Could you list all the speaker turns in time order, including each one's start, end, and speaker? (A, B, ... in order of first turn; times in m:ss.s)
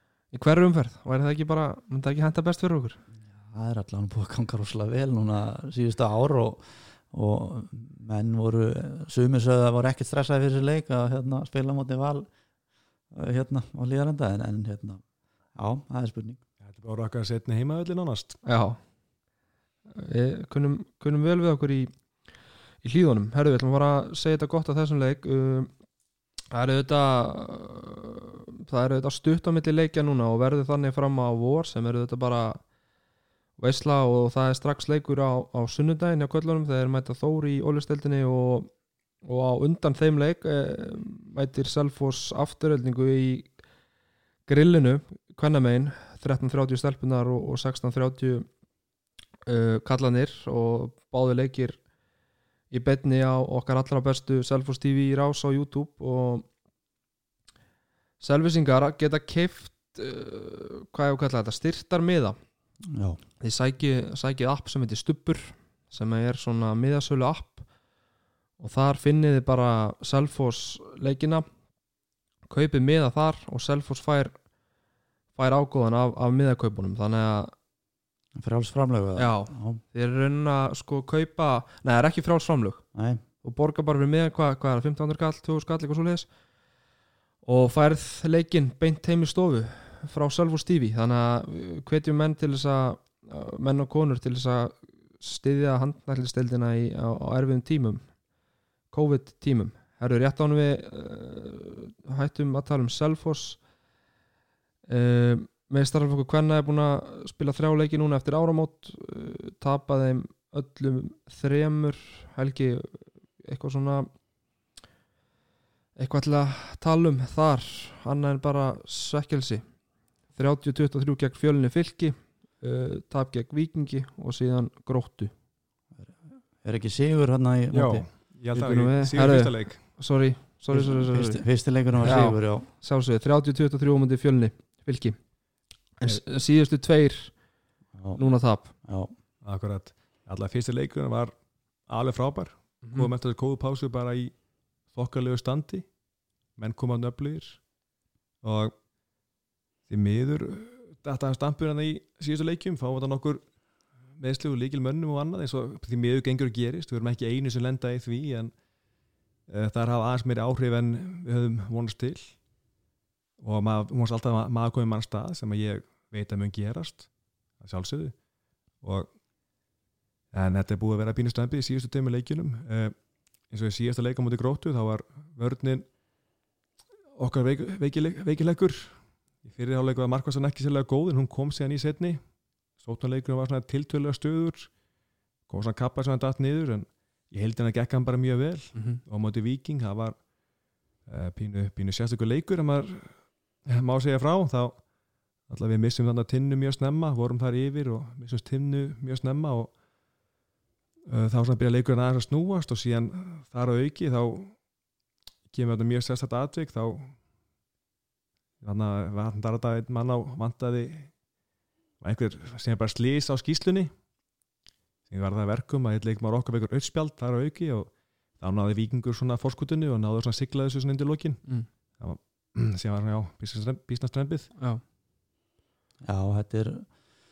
0:00.3-0:03.0 A
0:03.3-0:12.3 B
0:13.1-0:15.0 B
0:15.6-0:16.4 B
0:16.6-0:18.4 C
0:18.4-0:18.9 A
0:20.0-0:25.8 A
0:26.5-0:32.7 A
0:33.6-0:43.6 A
0:44.5-0:48.5 A
0:49.5-0:51.9 A
0:52.7-0:56.5 A
0:58.2-1:02.4 A
1:02.9-1:03.2 B
1:03.4-1:07.7 A
1:08.6-1:11.4 A
1:12.5-1:14.5 A
1:15.3-1:17.5 A
1:18.4-1:19.8 B
1:19.2-1:26.4 A
1:22.9-1:23.2 B
1:27.4-1:38.3 A
1:38.9-1:43.7 A
1:44.9-1:54.1 A
1:56.0-2:05.3 A
2:06.0-2:08.1 B
2:07.7-2:10.0 C
2:08.5-2:17.4 A
2:10.7-2:12.7 B
2:18.0-2:19.1 B
2:18.2-2:18.7 A
2:19.4-2:26.0 C
2:26.5-2:27.7 C
2:28.4-2:28.7 C
2:29.9-2:33.6 C
2:34.1-2:38.6 C
2:39.5-2:42.5 C
2:43.4-2:49.2 C
2:50.3-2:55.9 C
2:57.2-3:04.8 C
3:05.5-3:10.3 C
3:08.7-3:09.0 A
3:11.0-3:19.8 C
3:21.1-3:24.6 C
3:25.5-3:27.2 C
3:28.6-3:31.2 C
3:32.0-3:34.0 C
3:35.1-3:44.6 C
3:46.0-3:47.0 B